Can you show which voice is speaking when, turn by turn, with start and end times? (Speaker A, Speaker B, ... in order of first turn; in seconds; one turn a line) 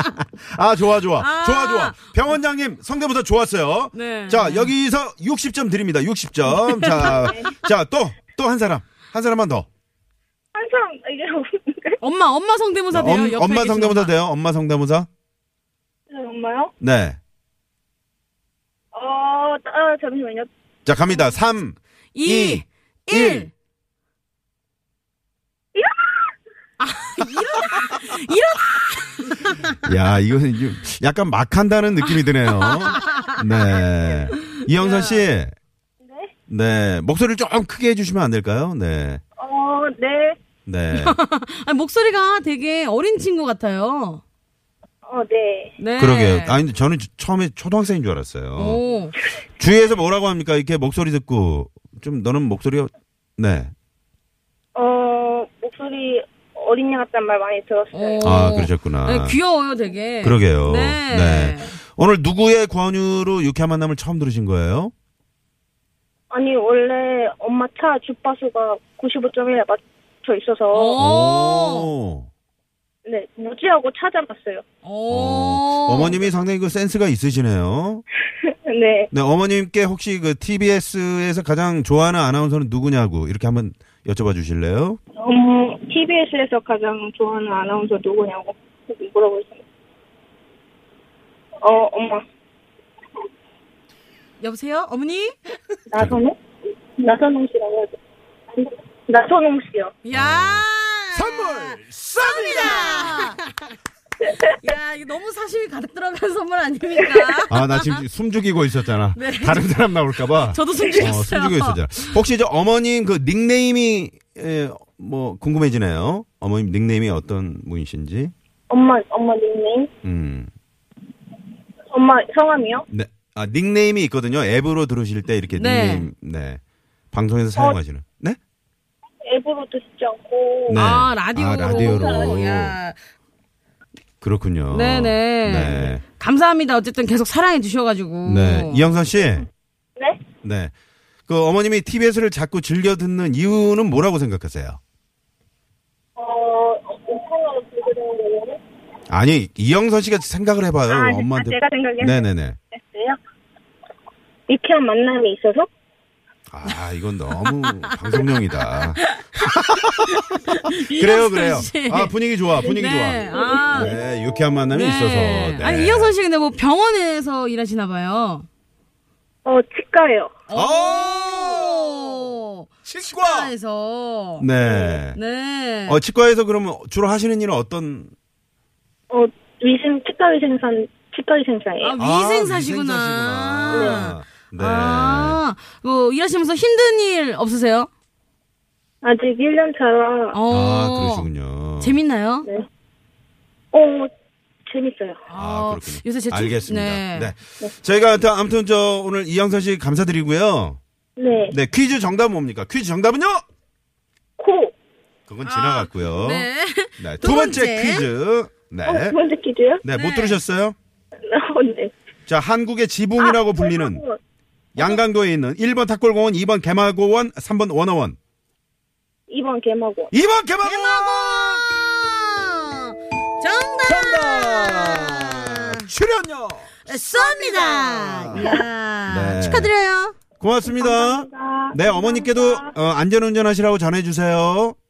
Speaker A: 0.2-9.7
Speaker B: 1.2-2.1
Speaker B: 3.9-4.7
Speaker B: 6.5-7.2
Speaker C: 7.1-7.5
Speaker C: 10.5-12.0
Speaker B: 12.0-14.1
Speaker A: 12.9-15.1
Speaker C: 16.1-16.7
Speaker A: 16.8-17.2
Speaker C: 18.9-20.5
Speaker A: 20.9-23.5
Speaker B: 22.1-23.5
Speaker C: 25.8-26.3
Speaker B: 26.8-29.8
Speaker A: 29.8-35.5
Speaker B: 32.5-33.4
Speaker B: 34.7-35.2
Speaker C: 36.0-36.3
Speaker A: 36.5-39.2
Speaker C: 39.4-40.4
Speaker A: 40.6-41.2
Speaker B: 40.9-44.2
Speaker C: 45.1-45.8
Speaker B: 45.8-46.6
Speaker A: 46.0-48.8
Speaker B: 48.6-49.1
Speaker A: 49.6-53.7
Speaker C: 54.8-58.4
Speaker B: 57.9-61.8
Speaker A: 58.2-59.4
Speaker A: 60.2-64.9
Speaker C: 66.3-71.0
Speaker B: 70.7-71.9
Speaker A: 71.0-72.3
Speaker C: 73.1-74.6
Speaker B: 74.8-76.2
Speaker A: 75.1-78.0
Speaker C: 78.7-79.1
Speaker A: 79.1-85.0
Speaker C: 85.2-89.6
Speaker C: 91.6-92.2
Speaker B: 94.4-95.3
Speaker C: 95.9-96.3
Speaker C: 97.0-98.0
Speaker C: 98.6-99.9
Speaker B: 100.0-103.5
Speaker A: 100.1-103.3
Speaker B: 104.5-108.0
Speaker A: 107.5-118.3
Speaker B: 109.1-111.8
Speaker C: 118.7-119.9
Speaker A: 120.0-120.5
Speaker C: 121.9-122.8
Speaker A: 122.9-126.6
Speaker B: 125.5-126.1
Speaker A: 127.1-128.4
Speaker C: 129.2-130.8
Speaker A: 130.7-132.8
Speaker B: 130.7-133.0
Speaker C: 131.6-132.4
Speaker A: 134.2-136.0
Speaker B: 134.7-138.9
Speaker A: 138.2-139.5
Speaker A: 140.4-140.7
Speaker A: 141.3-144.8
Speaker C: 146.2-148.6
Speaker A: 149.1-152.6
Speaker C: 150.9-153.2
Speaker C: 154.5-155.7
Speaker A: 156.5-166.2
Speaker B: 157.4-162.1
Speaker B: 162.6-164.0
Speaker C: 162.6-164.0
Speaker B: 164.7-168.4
Speaker C: 169.4-170.4
Speaker B: 170.5-174.5
Speaker A: 170.5-172.3
Speaker A: 172.8-173.5
Speaker A: 174.4-175.2
Speaker B: 175.1-176.0
Speaker A: 175.9-178.1
Speaker C: 179.1-182.0
Speaker B: 181.8-187.9
Speaker A: 182.0-185.4
Speaker C: 183.7-184.0
Speaker C: 189.0-190.4
Speaker B: 190.3-192.5
Speaker A: 190.5-192.0
Speaker C: 193.7-194.1
Speaker C: 194.7-195.2
Speaker B: 195.3-197.3
Speaker A: 195.3-200.8
Speaker C: 201.2-201.6
Speaker A: 201.5-203.4
Speaker C: 204.4-204.7
Speaker A: 205.3-209.2
Speaker B: 205.4-208.1
Speaker C: 208.8-209.8
Speaker A: 209.8-210.8
Speaker B: 209.9-210.4
Speaker C: 211.3-211.9
Speaker A: 212.3-214.0
Speaker C: 213.2-214.2
Speaker A: 214.8-218.2
Speaker C: 219.3-220.1
Speaker A: 220.1-221.7
Speaker B: 220.6-225.9
Speaker A: 223.8-228.6
Speaker B: 226.8-230.2
Speaker A: 229.1-229.7
Speaker A: 230.4-234.8
Speaker C: 230.7-232.7